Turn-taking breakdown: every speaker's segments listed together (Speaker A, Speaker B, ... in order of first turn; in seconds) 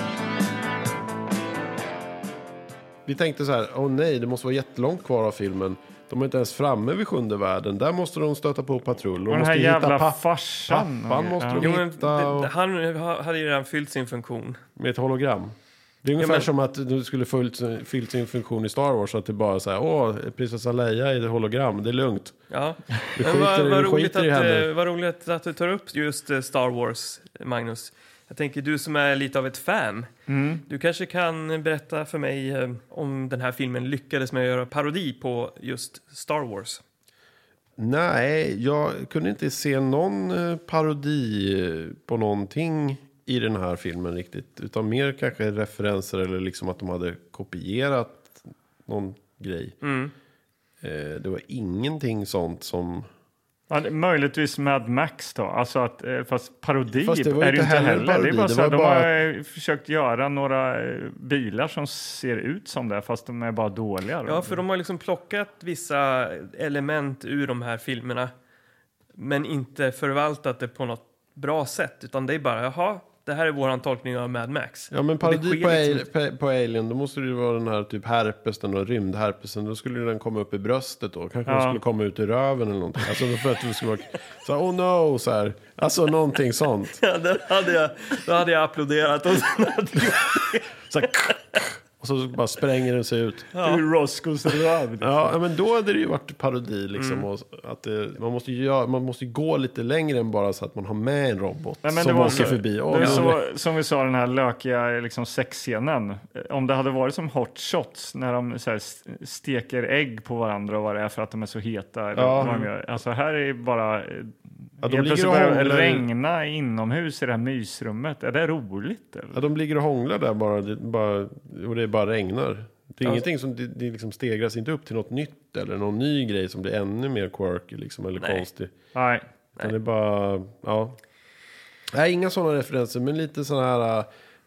Speaker A: 3.0-12.5, 14.8-22.4, 23.1-24.7, 37.8-49.8, 50.8-53.1, 56.9-59.1, 74.9-87.0, 90.9-93.5, 95.0-103.4, 112.1-112.6, 114.8-116.1, 119.3-128.7, 129.6-131.0, 131.9-134.1
Speaker B: 9.3-11.7, 30.3-30.6, 53.7-64.6, 81.5-81.8, 93.6-95.3, 101.8-119.4, 128.9-129.2
Speaker C: 11.6-14.6, 16.2-16.5, 22.5-30.1, 30.6-36.8, 49.8-50.1, 64.2-68.3, 69.1-76.0, 87.0-91.3, 93.5-93.8, 97.0-97.2, 102.3-103.3, 112.4-112.7, 128.2-128.4